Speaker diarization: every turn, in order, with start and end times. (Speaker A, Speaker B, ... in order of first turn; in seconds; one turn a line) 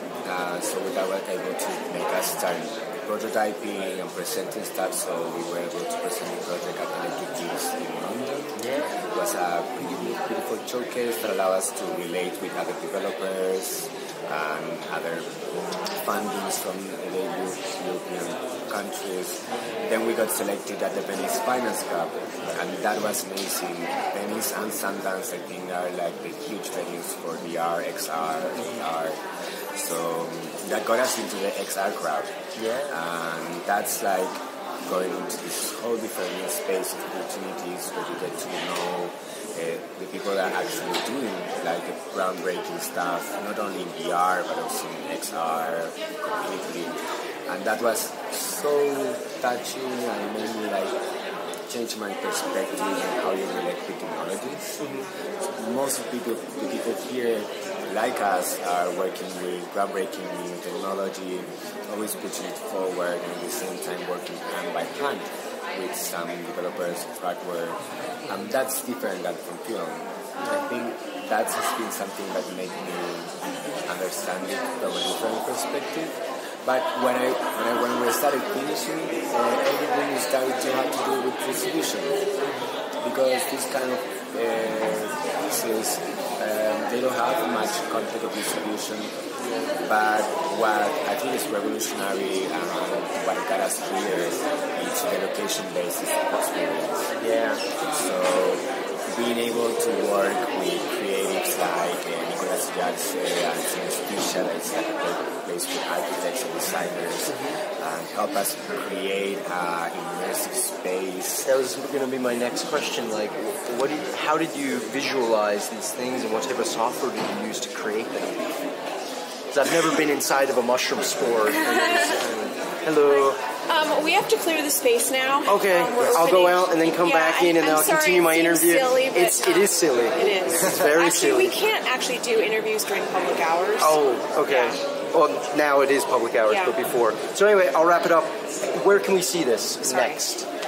Speaker A: 0.2-15.3
Speaker B: 8.6-8.9
Speaker A: 16.0-29.2
Speaker B: 28.6-28.9
Speaker A: 29.8-32.3
Speaker B: 32.6-33.0
Speaker A: 32.9-51.0
Speaker A: 51.7-54.8
Speaker B: 54.8-55.1
Speaker A: 55.5-82.2
Speaker A: 83.0-89.1
Speaker A: 89.8-97.1
Speaker B: 97.2-97.6
Speaker A: 97.9-111.5
Speaker B: 107.3-107.6
Speaker B: 111.5-118.4
Speaker B: 119.5-123.4
Speaker C: 123.7-134.8
Speaker B: 125.5-131.6
Speaker B: 133.8-140.5
Speaker C: 136.5-136.8
Speaker C: 139.8-140.2